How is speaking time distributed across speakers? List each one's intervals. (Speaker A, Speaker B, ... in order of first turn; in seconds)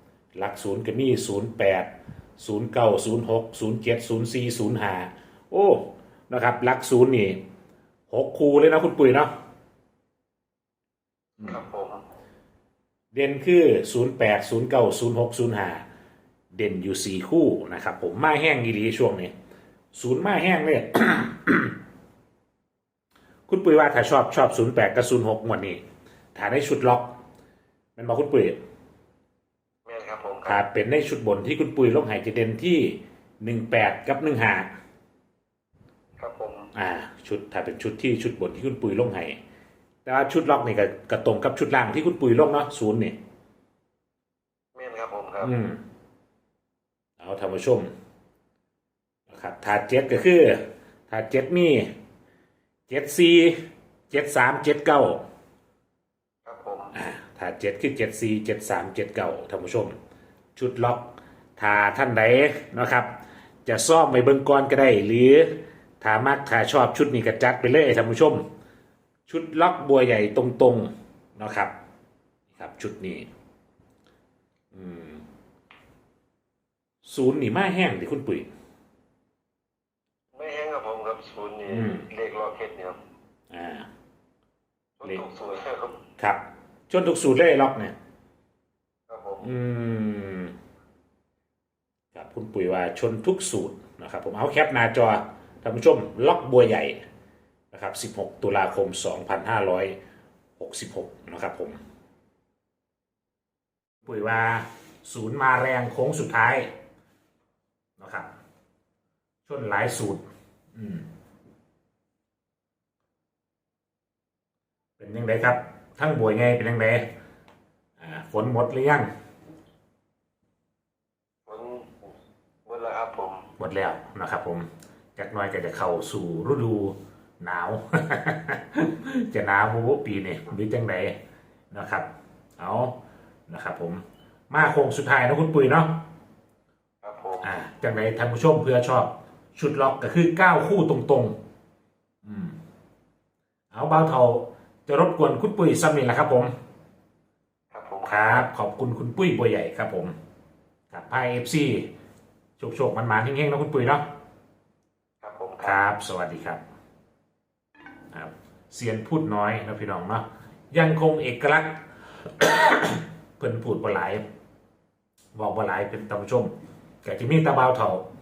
Speaker A: 0.3-7.4, 8.1-9.3, 13.1-15.8, 16.5-19.3, 19.9-21.8, 23.5-25.8, 26.3-27.2, 27.9-28.6, 30.4-34.7, 36.7-39.4, 40.0-43.2, 45.4-45.8, 47.2-47.9, 49.3-51.9, 52.9-53.5, 54.1-55.2, 56.9-59.9, 60.5-68.5, 69.3-71.7, 72.5-73.3, 74.7-75.2, 77.0-78.5, 81.7-82.0, 83.5-83.9, 86.2-87.9, 89.4-90.6, 92.1-97.0, 97.7-100.0, 100.6-101.8, 104.0-106.7, 108.0-108.3, 109.5-111.1, 115.0-117.1, 118.0-119.1, 123.6-131.2, 131.7-133.0, 133.5-136.1, 137.4-141.3, 142.2-142.6, 143.7-146.5, 148.1-150.1, 150.9-151.9, 152.6-154.0, 155.6-156.6, 158.1-164.2, 165.3-166.5, 167.0-168.0
Speaker B: 11.4-12.0, 29.9-30.6, 36.2-36.7, 44.8-45.5, 56.5-57.0, 80.3-83.0, 85.0-86.0, 89.1-89.5, 121.5-122.1, 122.7-123.5, 137.0-137.5, 147.7-148.5, 155.2-155.8